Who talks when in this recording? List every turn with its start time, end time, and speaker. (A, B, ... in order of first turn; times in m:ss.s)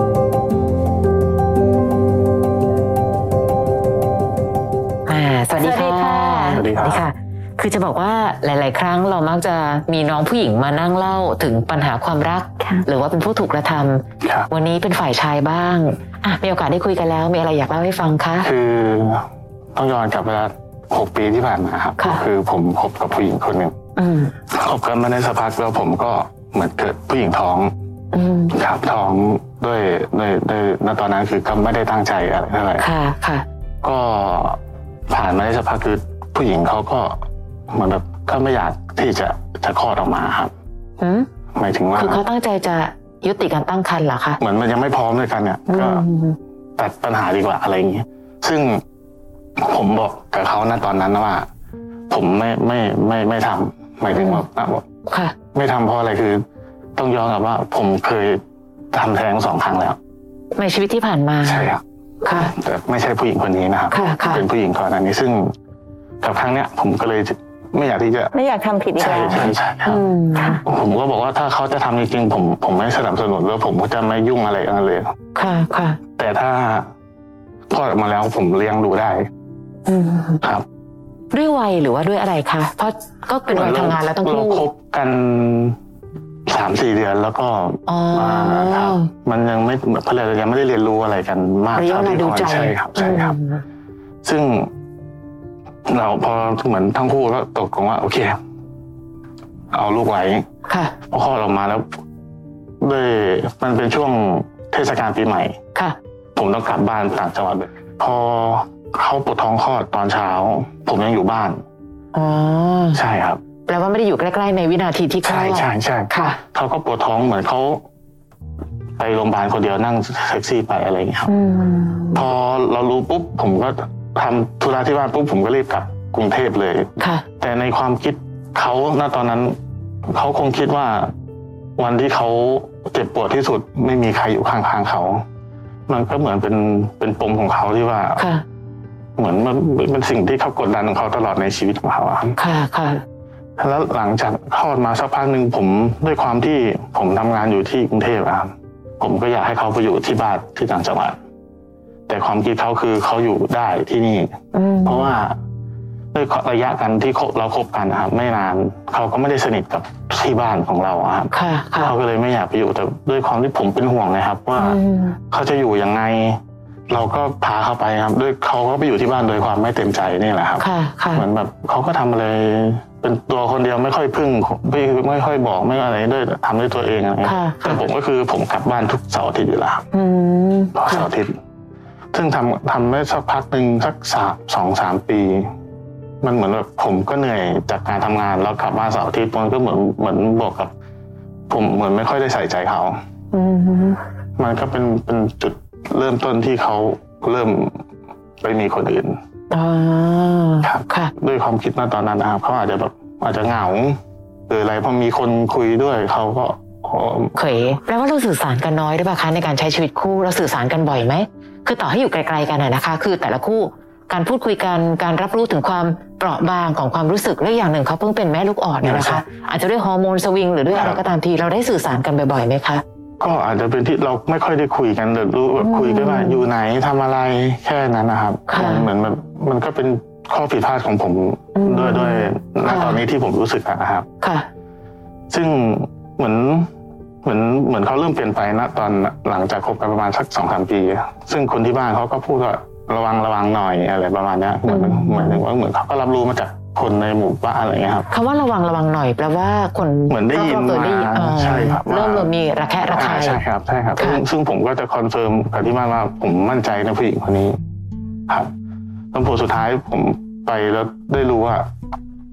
0:05.0-0:18.5 A
0:05.6-0:06.6 B
0:06.5-0:07.0 C
0:14.2-0:14.5 C
0:18.4-0:23.7 C
0:22.0-0:22.2 A
0:24.0-0:24.3 A
0:24.5-0:27.7 C
0:28.1-0:28.5 A
0:28.5-0:32.8 C
0:32.8-0:33.4 A
0:33.8-0:34.6 C
0:35.1-0:37.1 C
0:37.7-0:40.5 C
0:41.0-0:41.3 A
0:41.5-0:42.2 C
0:41.9-0:44.4 A
0:44.4-0:46.0 C
0:45.7-0:46.4 A
0:46.8-0:48.8 C
0:49.6-0:51.5 C
0:52.1-0:54.8 C
0:54.1-0:54.4 A
0:55.1-0:55.3 A
0:55.5-0:56.4 C
0:57.0-0:58.4 C
0:58.9-1:00.0 C
1:00.5-1:02.5 A
1:01.4-1:05.5 C
1:03.9-1:04.4 A
1:06.2-1:08.3 C
1:08.3-1:09.6 B
1:09.0-1:10.0 C
1:09.8-1:10.6 A
1:10.6-1:15.1 C
1:15.3-1:16.0 A
1:16.2-1:16.9 C
1:17.7-1:19.3 C
1:19.9-1:20.4 A
1:21.3-1:24.6 A
1:23.5-1:25.8 C
1:26.5-1:33.4 C
1:27.9-1:29.1 A
1:31.7-1:33.6 A
1:34.2-1:34.7 C
1:35.9-1:38.4 C
1:39.7-1:40.4 C
1:40.7-1:41.0 A
1:41.1-1:41.8 C
1:42.8-1:45.6 C
1:46.4-1:51.6 C
1:52.1-1:53.0 A
1:52.9-1:53.4 C
1:53.7-1:56.4 A
1:55.2-1:57.8 C
1:59.0-2:01.3 C
2:01.3-2:02.2 A
2:02.1-2:09.6 C
2:07.0-2:07.2 A
2:10.1-2:11.1 C
2:11.8-2:15.2 C
2:15.9-2:18.2 C
2:18.2-2:18.4 A
2:19.2-2:22.4 C
2:22.4-2:23.0 A
2:23.6-2:31.2 C
2:32.1-2:34.3 C
2:34.5-2:35.1 A
2:34.8-2:35.4 C
2:36.1-2:44.8 C
2:41.3-2:41.9 A
2:44.6-2:45.2 A
2:45.3-2:59.8 C
2:50.6-2:51.2 A
2:57.2-2:57.8 A
2:59.9-3:01.0 A
3:00.7-3:01.3 C
3:02.1-3:05.4 C
3:06.2-3:10.7 C
3:11.5-3:13.0 C
3:13.3-3:14.0 A
3:14.4-3:17.8 C
3:18.4-3:19.2 C
3:19.5-3:21.1 A
3:20.6-3:24.0 C
3:24.5-3:27.4 C
3:27.4-3:42.8 A
3:38.8-3:39.2 C
3:40.7-3:41.0 C
3:43.2-3:54.0 C
3:45.6-3:46.4 A
3:48.5-3:48.9 A
3:51.5-3:53.0 A
3:54.2-3:54.5 A
3:55.3-3:56.7 C
3:57.2-4:08.1 C
4:04.7-4:05.4 A
4:08.1-4:13.4 A
4:10.1-4:12.3 C
4:12.9-4:17.6 C
4:14.0-4:14.2 A
4:19.1-4:21.7 C